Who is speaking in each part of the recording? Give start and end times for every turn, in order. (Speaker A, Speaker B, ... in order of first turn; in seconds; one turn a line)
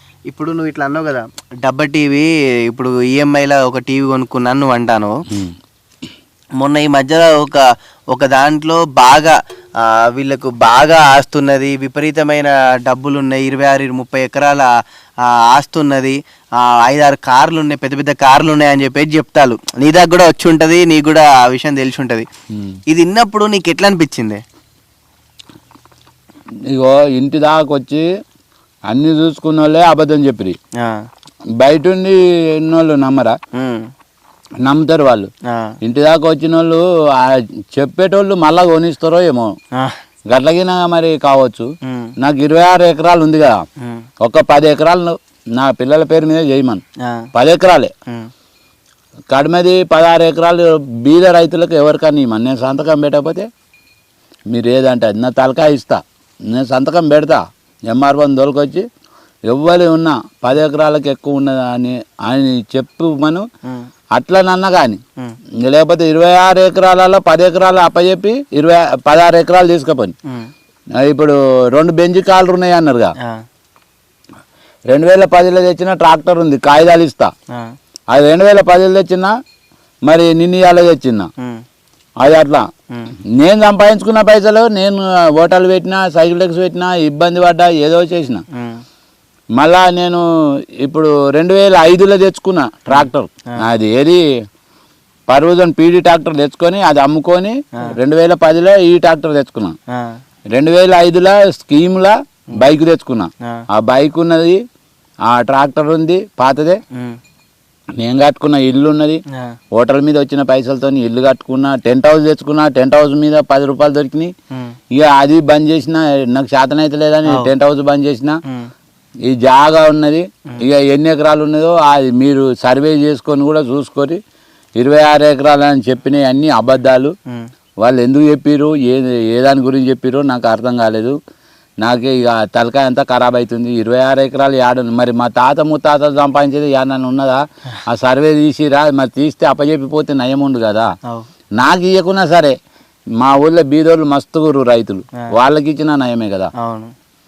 Speaker A: 0.3-5.2
Speaker A: 6.6-14.7
Speaker A: 15.2-22.3
Speaker B: 22.5-22.8
Speaker A: 22.9-24.4
Speaker B: 26.7-28.1
Speaker B: 28.9-30.6
Speaker B: 31.6-33.4
Speaker A: 33.5-33.9
Speaker B: 34.6-35.3
Speaker A: 35.5-35.7
Speaker B: 35.8-39.5
Speaker B: 40.3-41.7
Speaker A: 41.9-42.1
Speaker B: 42.2-43.6
Speaker B: 44.2-46.8
Speaker B: 47.3-47.9
Speaker B: 49.3-53.5
Speaker B: 54.5-58.9
Speaker B: 59.5-63.5
Speaker B: 64.2-65.0
Speaker B: 65.6-70.1
Speaker B: 71.0-73.1
Speaker B: 74.9-77.3
Speaker B: 78.1-79.3
Speaker B: 80.1-81.3
Speaker B: 82.2-82.7
Speaker B: 83.3-88.4
Speaker A: 88.5-88.8
Speaker B: 89.6-90.2
Speaker B: 90.8-94.2
Speaker A: 92.9-93.6
Speaker B: 95.3-99.8
Speaker B: 100.5-104.6
Speaker B: 105.3-106.8
Speaker B: 108.0-109.2
Speaker B: 109.7-114.3
Speaker B: 114.9-118.4
Speaker A: 117.3-117.5
Speaker B: 119.2-124.2
Speaker B: 124.8-127.1
Speaker B: 127.8-131.2
Speaker B: 131.8-140.9
Speaker B: 141.6-142.5
Speaker B: 143.2-146.5
Speaker A: 146.6-146.9